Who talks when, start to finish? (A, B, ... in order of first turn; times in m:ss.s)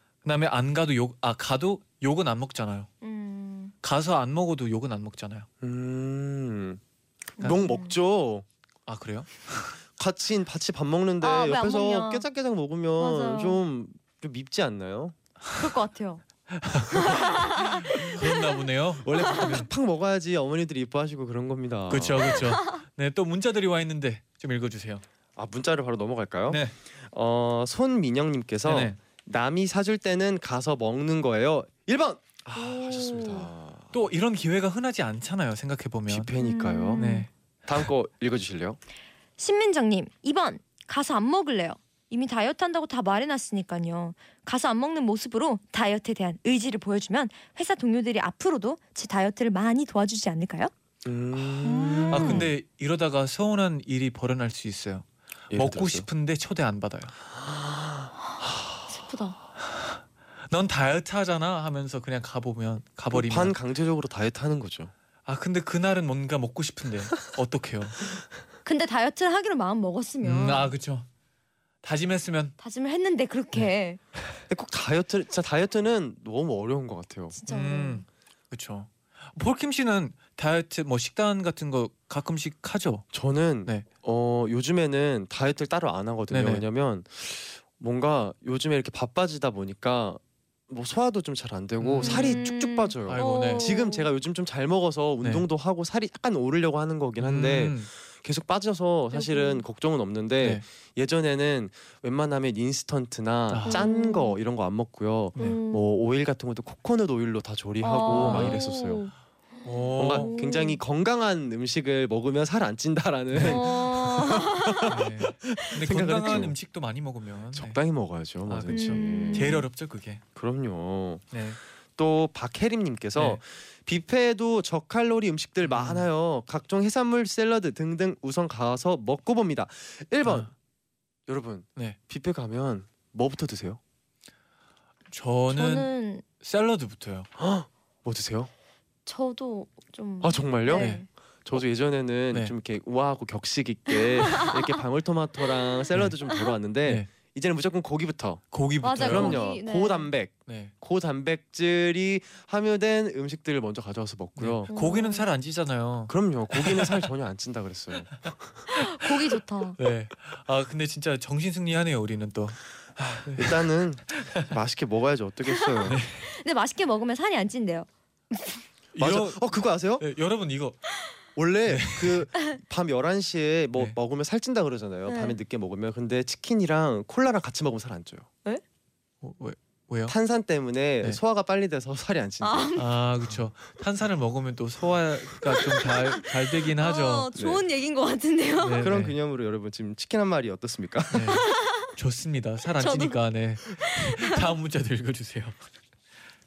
0:00.2-0:02.9 A
0:03.0-0:03.7 B
0:03.8-0:05.5 A
0:05.6-0:06.8 C
0:07.4-0:08.4 C
0:07.4-0:07.9 B
0:08.9-0:09.8 A
0:10.0-0:15.2 C
0:11.2-0:12.2 B
0:13.0-0:13.6 B
0:15.5-0:16.2 B
0:16.5-0:19.7 A
0:16.9-0:18.1 B
0:19.0-0:22.5 C
0:21.9-0:25.0 A
0:25.4-0:34.1 C
0:26.5-0:26.7 A
0:28.6-0:29.0 A
0:32.6-0:33.5 B
0:33.9-0:36.3 A
0:36.1-0:37.1 C
0:36.4-0:37.3 B
0:37.0-0:37.3 A
0:37.6-0:38.8 C
0:39.4-0:50.7 B
0:51.0-0:52.5 C
0:51.6-0:52.5 B
0:52.1-0:57.1 A
0:55.5-0:56.1 C
0:57.5-0:58.1 C
0:58.9-0:59.4 B
0:59.6-1:03.6 A
1:03.1-1:04.9 C
1:05.2-1:08.1 A
1:08.6-1:10.7 B
1:10.2-1:11.0 A
1:11.8-1:12.5 A
1:12.6-1:14.0 B
1:14.5-1:17.4 C
1:17.3-1:18.0 B
1:17.5-1:23.1 A
1:23.1-1:49.0 C
1:26.3-1:26.6 A
1:31.8-1:32.4 A
1:32.0-1:34.0 B
1:33.0-1:33.7 A
1:37.2-1:37.9 A
1:39.1-1:39.6 B
1:43.5-1:43.8 A
1:43.6-1:44.3 B
1:45.4-1:45.9 B
1:47.8-1:49.1 B
1:48.1-1:48.6 A
1:49.6-1:50.3 A
1:50.0-1:56.5 C
1:50.1-1:50.8 B
1:53.3-1:53.6 A
1:53.4-1:54.9 B
1:54.9-1:57.8 A
1:57.5-1:59.6 C
1:58.5-2:00.2 A
1:58.7-1:59.6 B
2:00.3-2:01.3 C
2:01.3-2:01.6 A
2:02.0-2:10.5 C
2:05.6-2:06.1 A
2:10.2-2:10.5 A
2:11.3-2:13.8 C
2:15.1-2:15.9 A
2:15.5-2:16.2 B
2:16.4-2:17.3 A
2:17.4-2:18.5 C
2:19.0-2:21.1 B
2:20.2-2:28.4 C
2:20.7-2:21.0 A
2:28.5-2:29.4 A
2:28.8-2:30.1 B
2:29.0-2:34.7 C
2:30.4-2:30.7 A
2:34.4-2:37.1 A
2:34.7-2:35.2 B
2:36.1-2:38.5 C
2:38.7-2:39.8 B
2:39.8-2:42.6 A
2:43.0-2:46.0 C
2:43.2-2:43.6 A
2:44.2-2:44.4 A
2:45.8-2:48.6 B
2:45.8-2:46.2 A
2:48.9-2:50.8 A
2:49.0-2:50.0 C
2:51.4-2:58.3 C
2:51.7-2:52.3 A
2:55.0-2:55.4 B
2:59.2-3:00.1 A
3:00.1-3:02.7 C
3:02.4-3:02.8 B
3:02.8-3:07.3 A
3:05.6-3:08.8 B
3:07.3-3:07.6 C
3:08.6-3:09.1 A
3:08.8-3:11.4 C
3:11.1-3:15.7 A
3:11.3-3:11.9 B
3:12.8-3:13.2 B
3:13.7-3:14.3 B